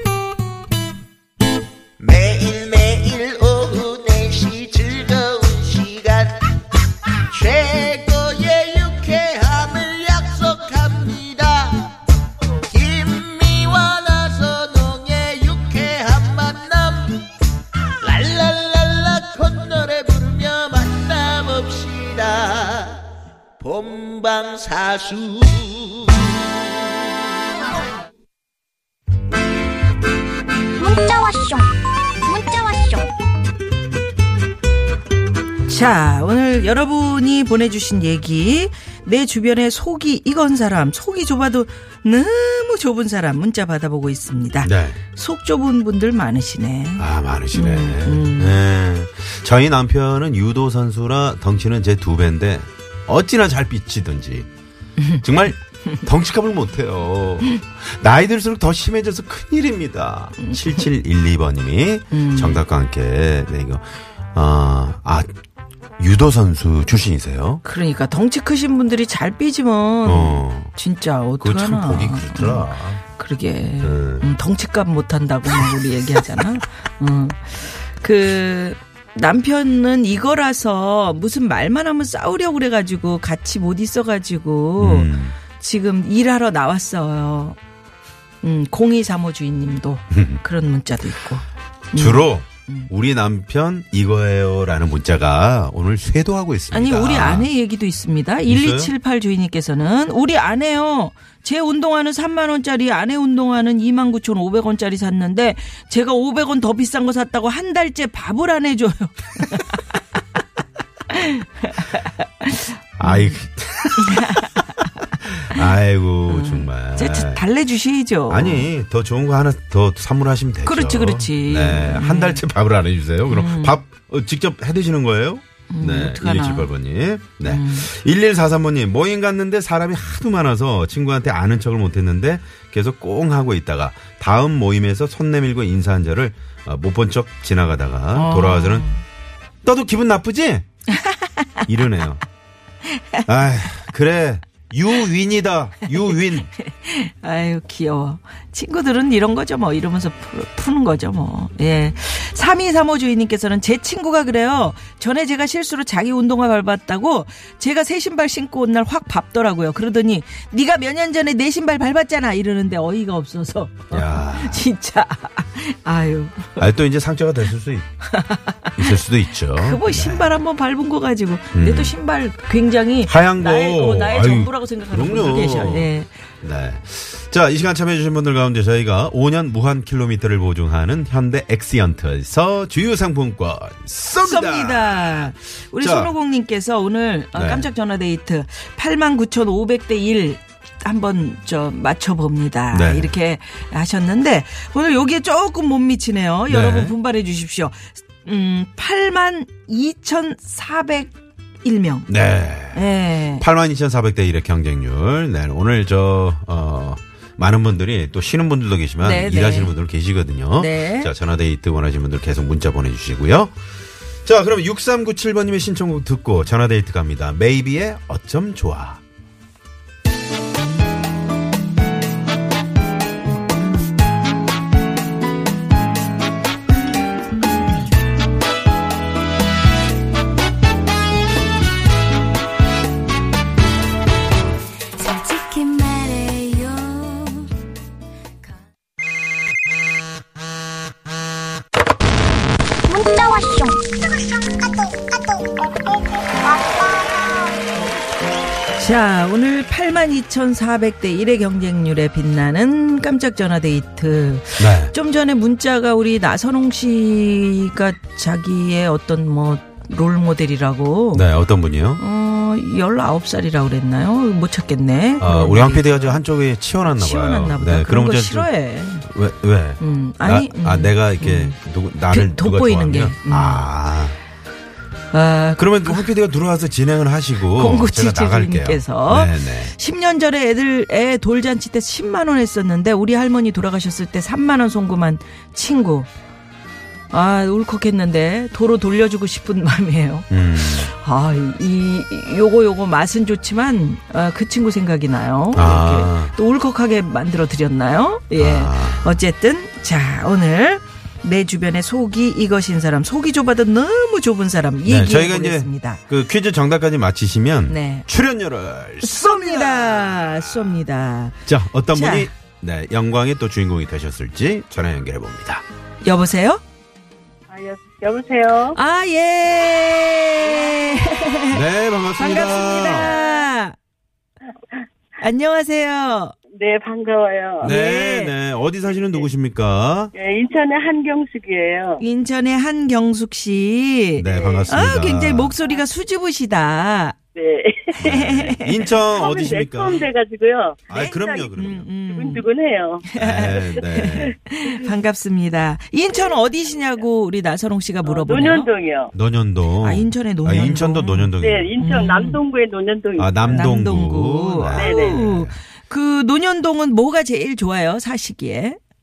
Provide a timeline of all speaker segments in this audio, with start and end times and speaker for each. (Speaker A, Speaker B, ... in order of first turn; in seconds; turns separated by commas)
Speaker A: 2.0-6.4, Speaker A: 7.3-11.9, Speaker A: 12.7-17.2, Speaker A: 18.0-23.0, Speaker A: 23.6-26.4, Speaker B: 30.8-33.1, Speaker C: 35.7-48.6, Speaker D: 44.6-45.0, Speaker D: 47.0-54.5, Speaker C: 55.0-55.2, Speaker D: 55.2-65.3, Speaker C: 60.4-60.9, Speaker C: 62.1-62.6, Speaker D: 66.0-67.6, Speaker C: 67.6-87.6, Speaker D: 70.0-70.7, Speaker D: 71.4-73.0, Speaker D: 73.8-74.3, Speaker D: 84.8-85.4, Speaker C: 88.4-92.9, Speaker D: 90.1-90.4, Speaker D: 91.9-97.5, Speaker C: 96.7-109.8, Speaker D: 98.5-98.9, Speaker C: 111.1-113.4, Speaker D: 113.0-114.7, Speaker C: 114.0-114.5, Speaker C: 115.2-115.7, Speaker D: 115.4-117.4, Speaker C: 116.3-118.7, Speaker D: 118.3-138.9, Speaker C: 120.6-122.4, Speaker C: 123.3-123.8, Speaker C: 125.7-126.7, Speaker C: 127.5-127.9, Speaker C: 138.1-139.0, Speaker D: 139.6-140.7, Speaker C: 140.9-141.7, Speaker D: 141.7-142.2, Speaker C: 142.9-143.3, Speaker D: 143.3-146.5, Speaker C: 145.9-166.6, Speaker D: 163.9-164.7, Speaker D: 166.6-167.9, Speaker C: 168.1-169.0, Speaker D: 168.8-170.4, Speaker C: 169.5-176.1, Speaker D: 171.5-172.0, Speaker D: 173.1-186.1, Speaker C: 184.2-202.1, Speaker D: 187.3-187.7, Speaker D: 192.7-193.1, Speaker D: 196.5-196.9, Speaker D: 202.1-213.6, Speaker C: 202.7-203.4, Speaker C: 209.0-209.7, Speaker C: 210.6-211.1, Speaker D: 214.2-219.0, Speaker E: 235.0-237.6, Speaker B: 242.9-245.5, Speaker B: 246.5-247.1, Speaker C: 248.8-261.3, Speaker D: 254.6-254.9, Speaker D: 261.1-262.0, Speaker C: 262.0-266.2, Speaker D: 265.2-268.5, Speaker C: 266.9-269.1, Speaker D: 269.0-274.2, Speaker C: 269.8-271.6, Speaker C: 272.1-273.7, Speaker C: 275.1-276.1, Speaker D: 275.6-279.7, Speaker C: 277.5-286.1, Speaker C: 287.1-306.0, Speaker D: 290.3-290.9, Speaker D: 295.5-296.3, Speaker D: 298.4-299.2, Speaker D: 304.9-310.8, Speaker C: 307.7-308.1, Speaker C: 309.0-312.3, Speaker D: 311.4-315.6, Speaker C: 316.0-316.6, Speaker F: 317.5-318.8, Speaker C: 318.7-321.6, Speaker F: 320.4-321.0, Speaker D: 321.5-323.2, Speaker C: 322.2-323.8, Speaker C: 325.2-326.3, Speaker F: 326.5-327.7, Speaker C: 327.6-328.3, Speaker D: 327.6-330.1, Speaker F: 330.1-332.0, Speaker C: 332.0-337.1, Speaker D: 334.2-335.5, Speaker F: 334.2-334.9, Speaker F: 337.3-338.1, Speaker D: 338.0-340.1, Speaker C: 338.0-338.8, Speaker F: 339.0-341.5, Speaker D: 340.9-341.9, Speaker C: 340.9-342.4, Speaker F: 342.1-343.1, Speaker C: 343.0-348.7, Speaker D: 343.1-344.3, Speaker F: 343.9-344.3, Speaker F: 346.1-347.0, Speaker F: 348.0-349.1, Speaker D: 349.1-351.7, Speaker C: 349.8-352.4, Speaker F: 351.4-353.7, Speaker D: 353.2-355.6, Speaker C: 353.5-358.8, Speaker F: 354.7-355.2